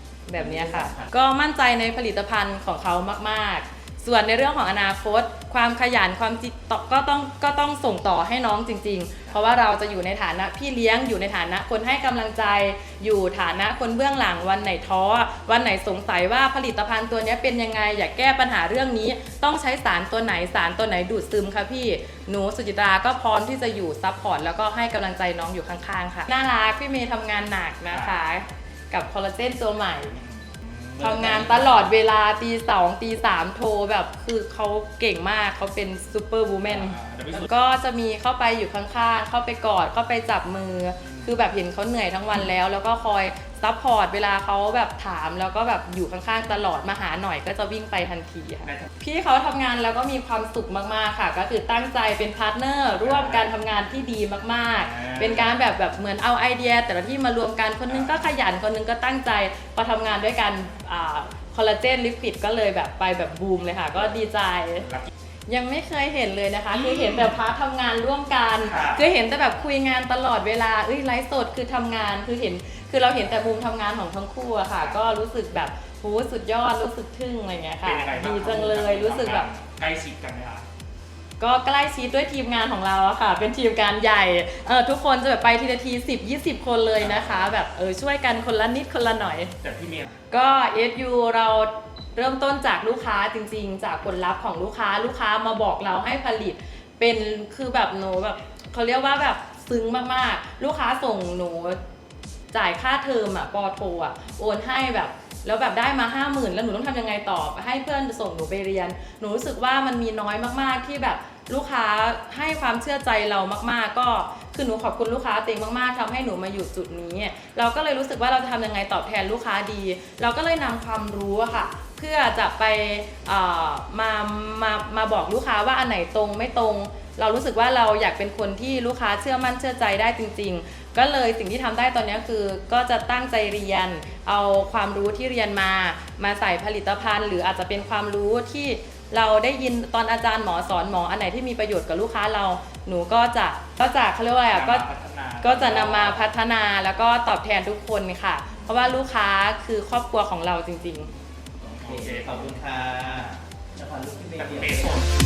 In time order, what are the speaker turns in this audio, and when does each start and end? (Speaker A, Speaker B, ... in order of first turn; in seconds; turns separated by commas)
Speaker A: 0.3-30.1, Speaker B: 0.4-1.1, Speaker C: 30.1-31.9, Speaker A: 31.0-64.9, Speaker C: 36.6-37.5, Speaker C: 41.0-41.3, Speaker C: 53.0-53.5, Speaker C: 54.8-55.5, Speaker C: 57.9-58.2, Speaker C: 64.8-65.1, Speaker A: 65.5-79.5, Speaker C: 66.9-67.3, Speaker C: 68.6-69.0, Speaker C: 74.8-75.0, Speaker C: 77.8-80.6, Speaker A: 81.4-89.5, Speaker C: 87.0-87.6, Speaker C: 89.6-90.0, Speaker A: 90.3-101.8, Speaker A: 102.5-144.9, Speaker C: 144.5-146.3, Speaker A: 145.4-151.1, Speaker B: 151.6-155.0, Speaker C: 151.7-152.7, Speaker C: 154.3-155.0